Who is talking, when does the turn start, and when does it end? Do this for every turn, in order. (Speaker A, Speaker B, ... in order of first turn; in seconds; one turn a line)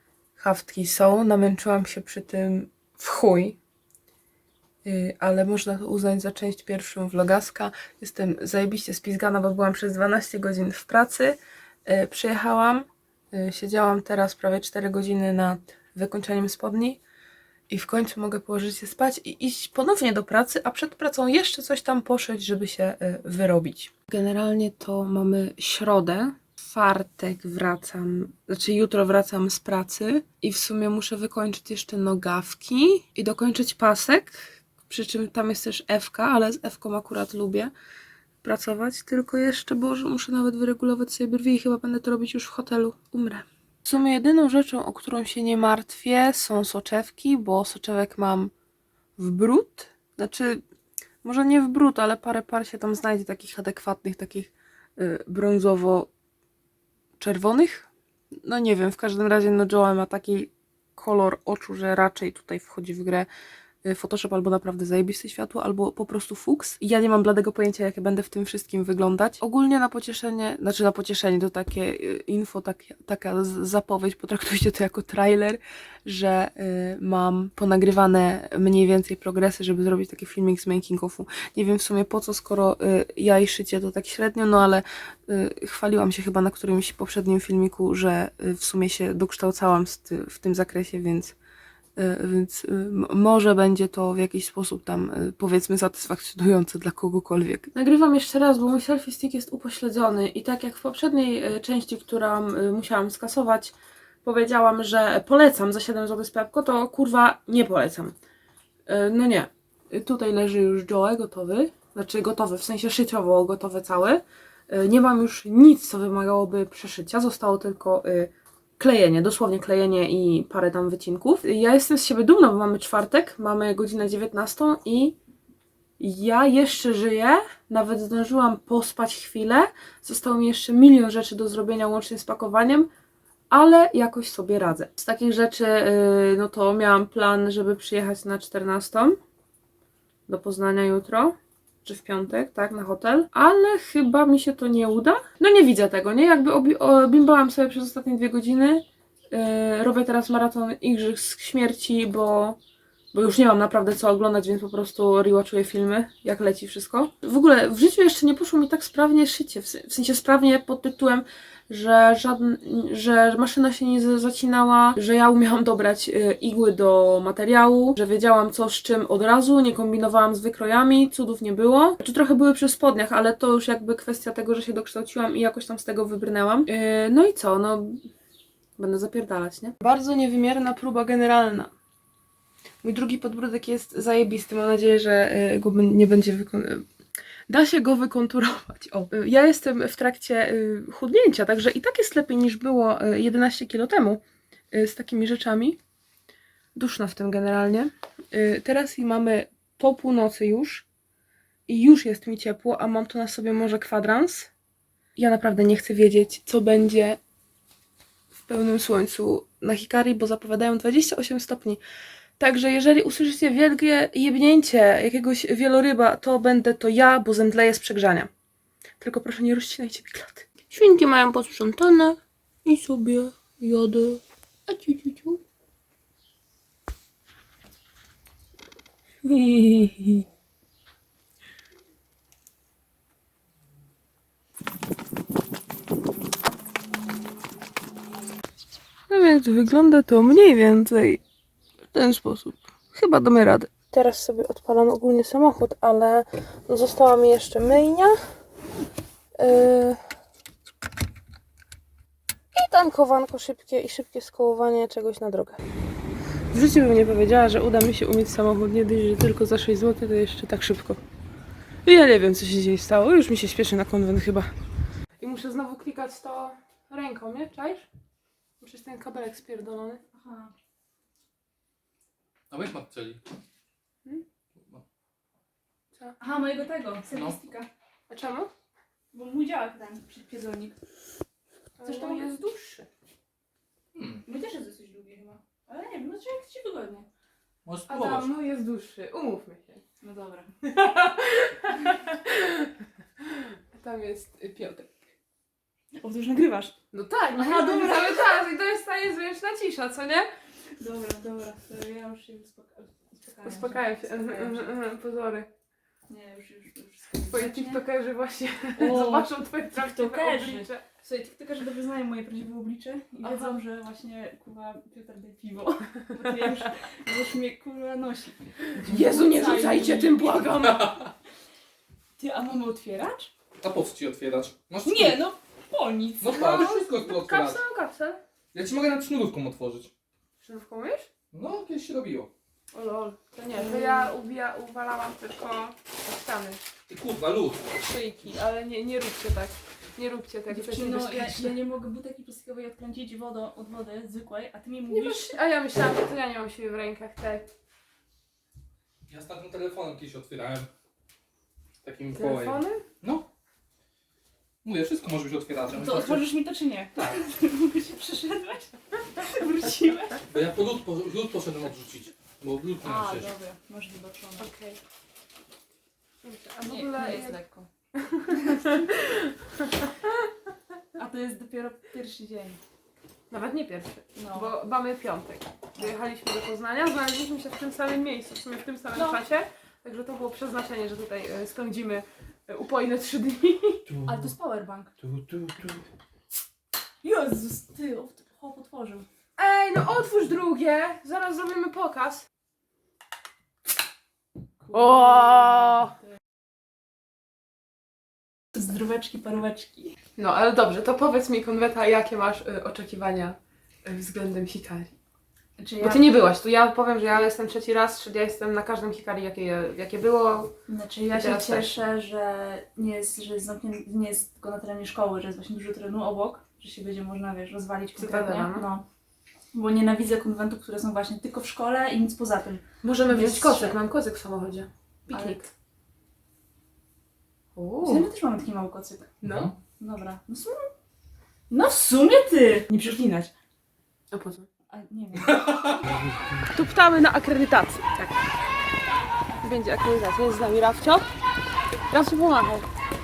Speaker A: 0.4-3.6
Speaker A: 4.8-17.0
Speaker A: 17.7-37.7
Speaker A: 38.4-48.5
Speaker A: 49.2-50.6
Speaker A: 51.2-56.1
Speaker A: 57.2-57.9
Speaker A: 58.4-63.3
Speaker A: 63.9-91.3
Speaker A: 92.0-108.2
Speaker A: 108.9-125.2
Speaker A: 126.0-132.9
Speaker A: 133.5-139.2
Speaker A: 140.3-152.6
Speaker A: 153.1-178.0
Speaker A: 178.8-181.7
Speaker A: 182.8-186.9
Speaker A: 187.5-194.2
Speaker A: 194.7-195.8
Speaker A: 196.8-200.8
Speaker A: 201.7-204.5
Speaker A: 205.2-207.2
Speaker A: 208.5-211.8
Speaker A: 212.4-218.3
Speaker A: 219.0-225.4
Speaker A: 229.2-230.2
Speaker A: 239.1-241.2
Speaker A: 241.9-248.2
Speaker A: 249.4-250.0
Speaker A: 252.5-255.6
Speaker A: 256.5-261.0
Speaker A: 261.9-264.5
Speaker A: 265.2-267.9
Speaker A: 268.6-270.0
Speaker B: 270.1-270.5
Speaker C: 272.5-273.2
Speaker B: 276.2-277.7
Speaker C: 277.1-277.4
Speaker A: 278.1-278.5
Speaker B: 279.1-280.8
Speaker A: 281.8-282.9
Speaker B: 281.8-282.6
Speaker C: 283.9-284.2
Speaker B: 284.2-287.1
Speaker C: 287.6-288.3
Speaker A: 287.9-289.8
Speaker B: 290.0-290.5
Speaker A: 290.6-292.7
Speaker A: 293.7-295.0
Speaker B: 295.9-296.8
Speaker A: 296.9-300.3
Speaker B: 297.4-298.4
Speaker B: 300.8-304.7
Speaker A: 303.4-305.5
Speaker B: 306.1-307.8
Speaker A: 307.3-310.9
Speaker B: 308.8-320.4
Speaker A: 313.2-313.6
Speaker A: 318.9-321.0
Speaker C: 320.6-321.1
Speaker B: 322.2-323.3
Speaker C: 323.6-325.2
Speaker B: 324.8-326.7
Speaker C: 326.2-327.6
Speaker A: 326.3-328.2
Speaker C: 328.5-329.9
Speaker A: 330.4-331.1
Speaker C: 331.3-332.3
Speaker A: 332.7-336.6
Speaker B: 333.5-334.1
Speaker C: 336.9-337.8
Speaker A: 337.9-341.6
Speaker B: 340.5-345.4
Speaker A: 344.9-347.5
Speaker C: 349.1-350.7
Speaker C: 351.8-353.3
Speaker A: 352.2-352.8
Speaker C: 354.6-356.3
Speaker B: 355.7-360.2
Speaker C: 360.3-363.3
Speaker B: 362.8-364.5
Speaker A: 364.4-364.8
Speaker A: 366.2-367.4
Speaker B: 366.6-367.7
Speaker A: 368.1-368.8
Speaker B: 368.3-368.8
Speaker B: 371.0-372.6
Speaker A: 373.3-383.8
Speaker B: 374.2-374.5
Speaker B: 378.9-379.2
Speaker C: 383.9-384.4
Speaker B: 384.1-384.9
Speaker C: 385.0-385.8
Speaker B: 387.0-389.1
Speaker A: 389.4-392.2
Speaker B: 394.7-395.9
Speaker A: 394.7-395.9
Speaker B: 398.5-400.0
Speaker A: 400.2-404.9
Speaker B: 405.6-406.2
Speaker A: 405.8-410.5
Speaker B: 410.7-418.8
Speaker A: 411.1-411.8
Speaker A: 418.0-418.7
Speaker B: 419.5-423.8
Speaker A: 422.8-425.5
Speaker B: 425.1-425.5
Speaker A: 427.6-428.1
Speaker B: 427.8-429.1
Speaker A: 429.2-429.5
Speaker C: 429.2-429.6
Speaker B: 429.8-430.7
Speaker B: 431.5-433.3
Speaker A: 434.1-434.5
Speaker B: 434.7-435.9
Speaker C: 435.3-436.1
Speaker A: 436.5-438.1
Speaker A: 439.4-441.1
Speaker A: 441.9-442.7